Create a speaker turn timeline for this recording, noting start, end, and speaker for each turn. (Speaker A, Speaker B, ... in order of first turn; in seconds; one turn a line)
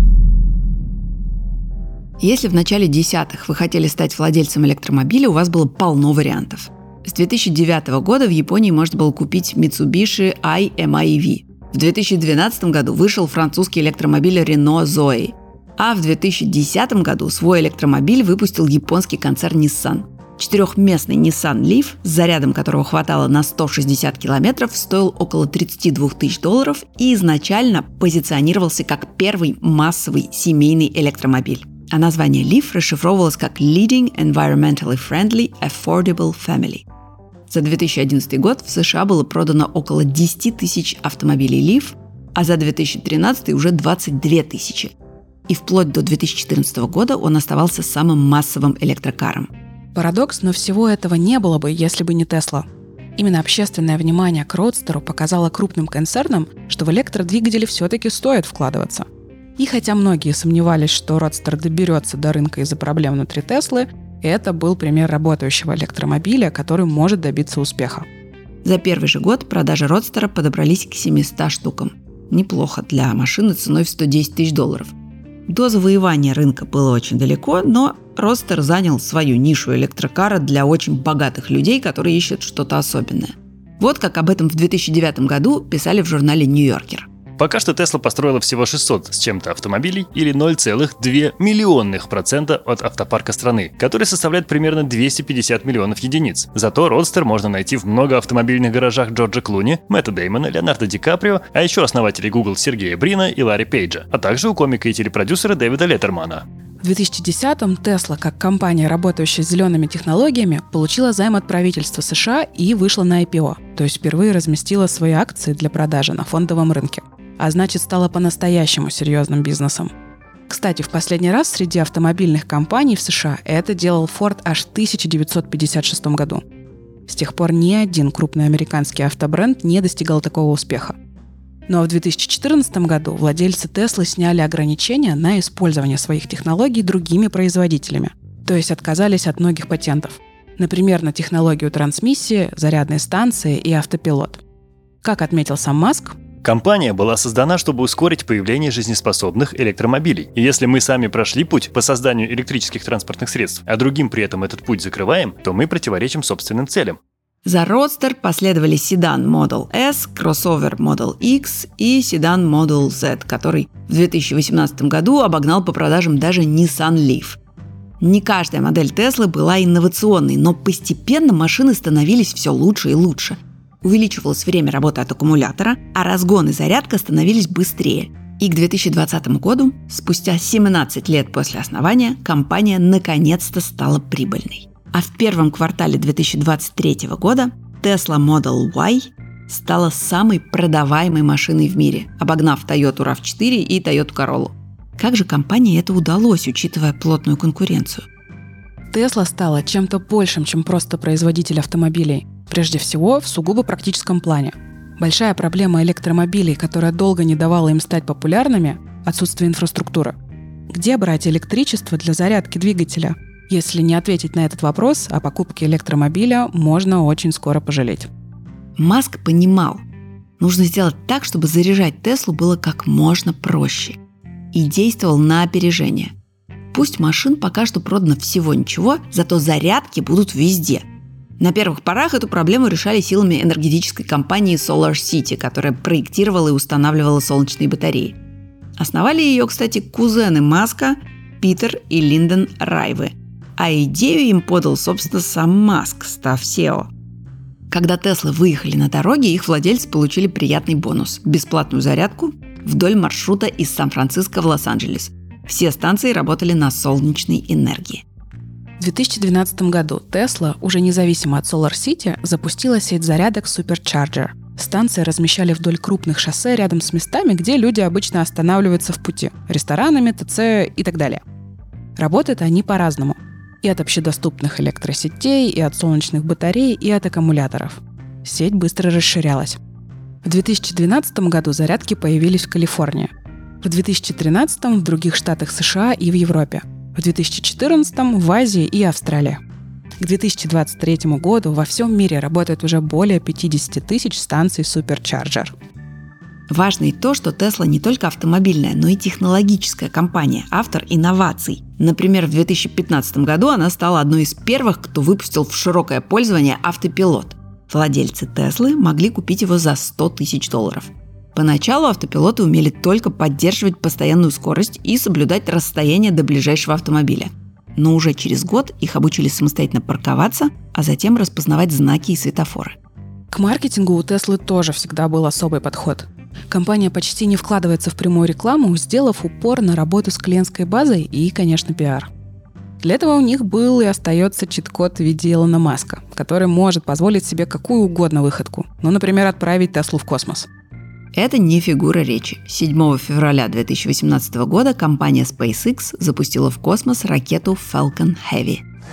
Speaker A: 2.2-36.8
Speaker A: 37.5-44.9
Speaker A: 45.5-49.5
Speaker B: 49.9-52.6
Speaker B: 53.2-59.1
Speaker B: 59.6-68.0
Speaker A: 68.6-74.9
Speaker A: 75.5-87.1
Speaker C: 87.4-106.4
Speaker B: 106.8-119.9
Speaker B: 120.5-126.4
Speaker B: 127.1-130.9
Speaker B: 131.7-144.4
Speaker B: 145.0-146.2
Speaker C: 146.4-157.0
Speaker A: 157.4-167.4
Speaker A: 168.0-198.1
Speaker B: 198.9-210.2
Speaker B: 210.7-218.1
Speaker A: 218.8-219.8
Speaker A: 220.4-224.0
Speaker A: 224.5-226.1
Speaker A: 226.7-230.9
Speaker A: 231.4-238.2
Speaker A: 238.8-246.9
Speaker A: 247.7-258.0
Speaker B: 258.8-271.2
Speaker B: 272.0-279.6
Speaker B: 280.2-283.1
Speaker B: 283.6-289.4
Speaker B: 290.0-295.5
Speaker A: 296.5-322.8
Speaker B: 323.3-332.1
Speaker B: 332.8-340.5
Speaker A: 341.1-348.6